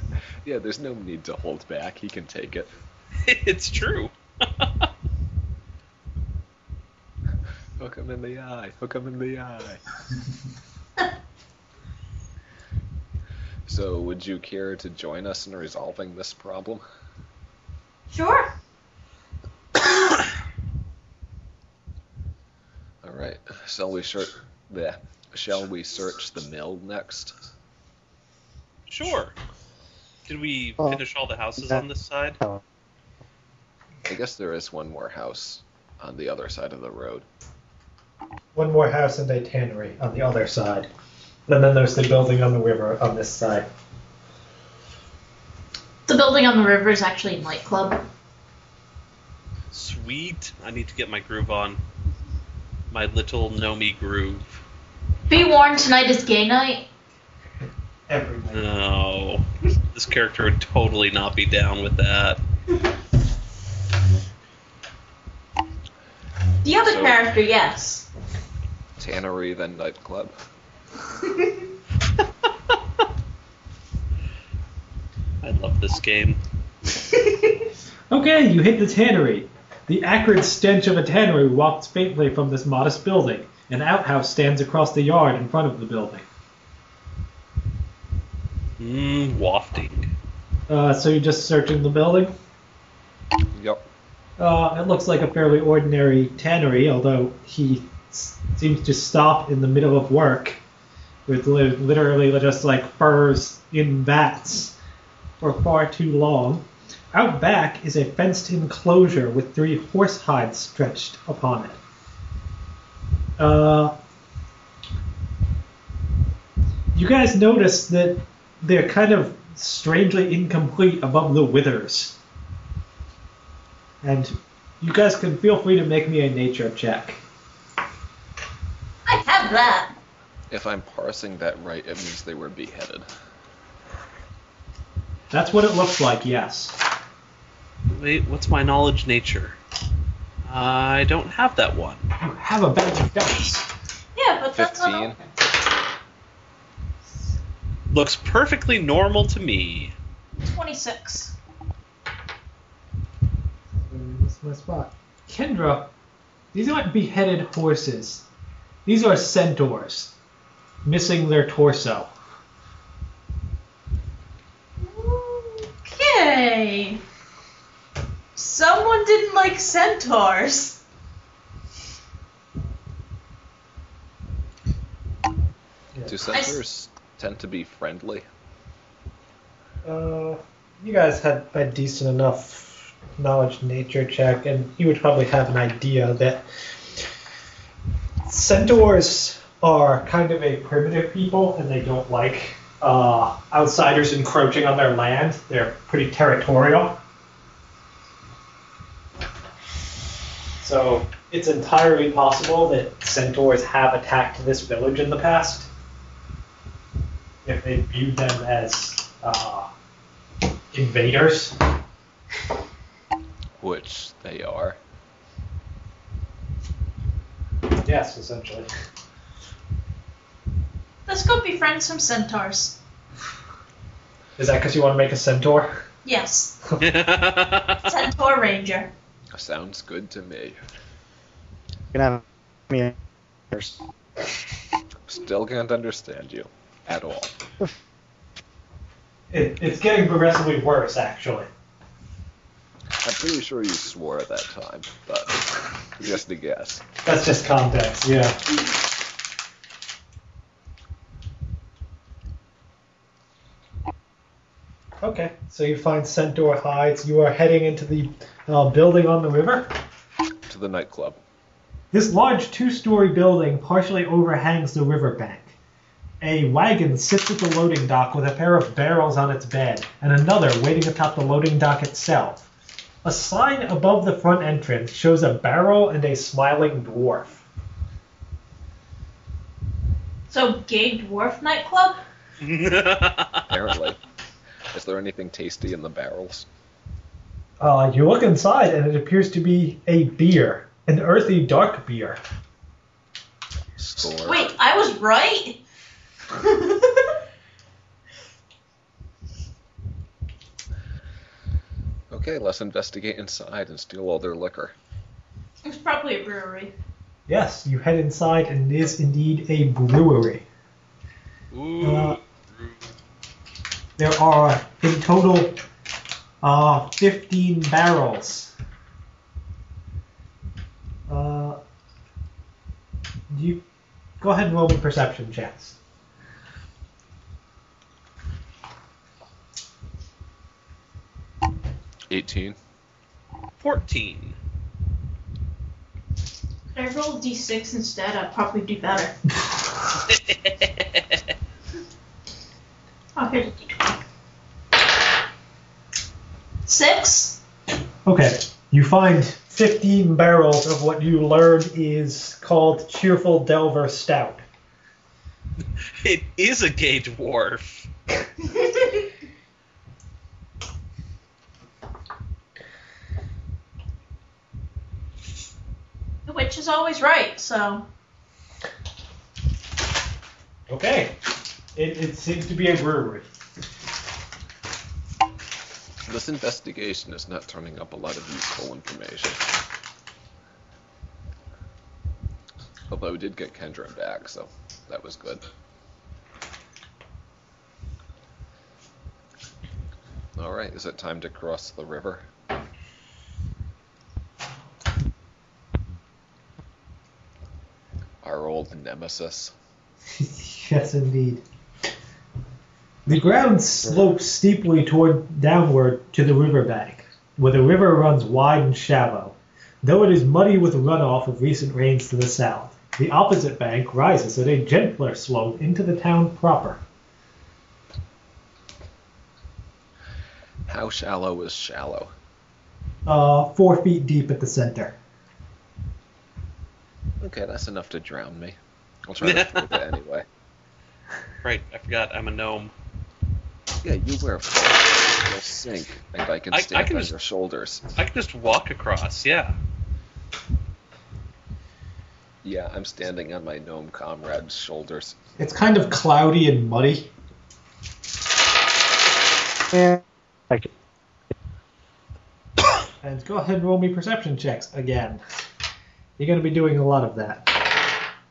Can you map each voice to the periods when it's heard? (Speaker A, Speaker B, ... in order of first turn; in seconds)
Speaker A: 0.4-2.7, 7.8-9.8, 13.7-16.8, 23.0-27.3, 34.1-37.3, 66.8-67.3, 69.0-70.3, 93.5-93.8, 130.5-133.1, 144.5-145.2, 176.1-178.3, 213.6-214.8, 229.3-230.6, 235.1-237.3, 243.0-246.8, 260.5-261.2, 283.5-284.0, 284.7-286.5, 293.8-294.5, 302.1-304.8, 311.6-312.1, 332.1-332.6, 376.1-379.5, 382.9-385.4, 390.4-392.3, 398.2-399.5, 420.7-422.1, 427.2-430.3, 433.8-437.9, 442.4-445.2
Speaker B: 3.2-4.9, 28.9-29.4, 30.3-32.4, 49.7-51.8, 52.9-54.6, 58.5-62.4, 75.4-76.4, 88.8-90.1, 137.9-139.6, 140.4-142.1, 147.9-149.9, 226.8-227.8, 282.4-283.5, 333.6-334.4, 340.1-341.1, 356.0-357.9, 429.2-429.9, 431.4-432.7, 436.5-437.1, 437.9-439.6
Speaker C: 18.1-18.5, 46.1-48.0, 55.3-56.9, 66.6-68.1, 71.2-71.5, 77.1-77.7, 129.1-129.9, 144.2-145.3, 150.4-151.3, 164.8-167.0, 168.3-170.8, 176.3-176.6, 221.1-222.8, 226.0-226.6, 227.8-228.9, 280.3-282.0, 294.2-295.6, 296.3-297.1, 305.6-306.7, 336.7-339.1, 343.2-344.0, 346.7-347.4, 358.4-359.1, 366.3-367.9
Speaker D: 31.6-31.8, 231.9-232.9, 233.5-233.8, 449.7-450.7
Speaker E: 38.5-40.9, 41.5-43.7, 58.1-58.7, 78.1-86.3, 90.7-92.3, 94.4-100.6, 101.3-104.8, 105.4-111.8, 113.4-114.0, 117.0-122.2, 124.0-127.2, 135.3-136.8, 142.2-143.7, 153.9-155.9, 156.5-158.2, 158.9-160.1, 160.8-162.1, 179.8-187.1, 188.2-197.0, 200.6-205.7, 207.4-209.7, 210.7-211.6, 217.8-218.7, 224.4-225.8, 239.3-241.5, 247.0-248.4, 255.0-259.7, 261.9-265.5, 266.2-272.5, 273.0-277.4, 287.6-292.2, 307.3-310.4, 311.8-312.2, 314.0-315.6, 316.4-318.5, 321.1-321.6, 323.3-323.6, 324.2-325.8, 348.1-354.4, 370.7-371.2, 371.8-373.3, 400.1-401.4, 403.1-416.8, 423.1-425.0, 445.4-447.1, 453.0-455.2, 456.2-457.7